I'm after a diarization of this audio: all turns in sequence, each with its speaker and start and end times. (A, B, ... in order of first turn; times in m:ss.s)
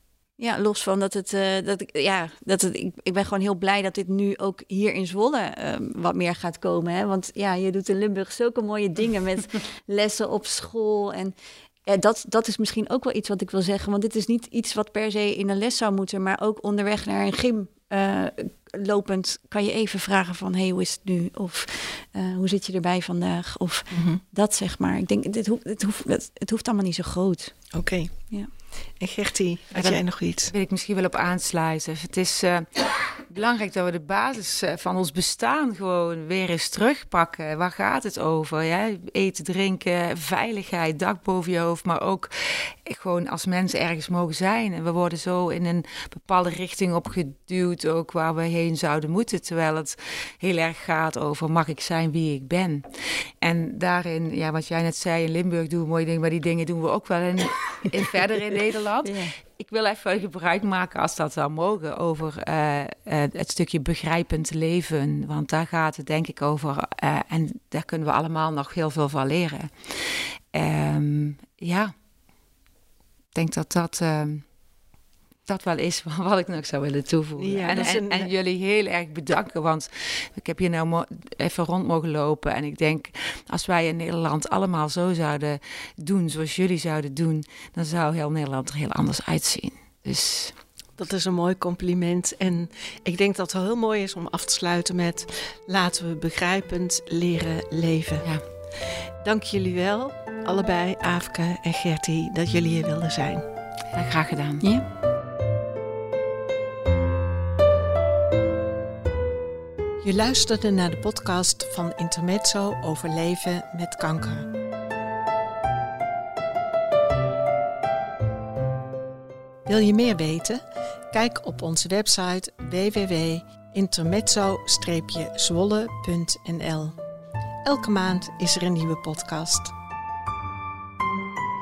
0:00.4-0:11.4 A
0:11.9-0:27.6 A
0:23.9-0:24.2 B
0:27.7-0:28.2 B
0:29.0-0:30.5 B
0:29.7-0:52.9 C
0:53.4-1:11.9 C
0:59.0-0:59.3 A
1:13.3-1:14.4 C
1:15.5-1:30.6 C
1:17.4-1:18.3 B
1:31.0-1:38.3 B
1:39.2-1:43.5 B
1:43.9-1:44.6 C
1:44.6-1:44.9 A
1:50.0-1:54.5 B
1:59.7-2:07.0 B
2:07.6-2:09.8 B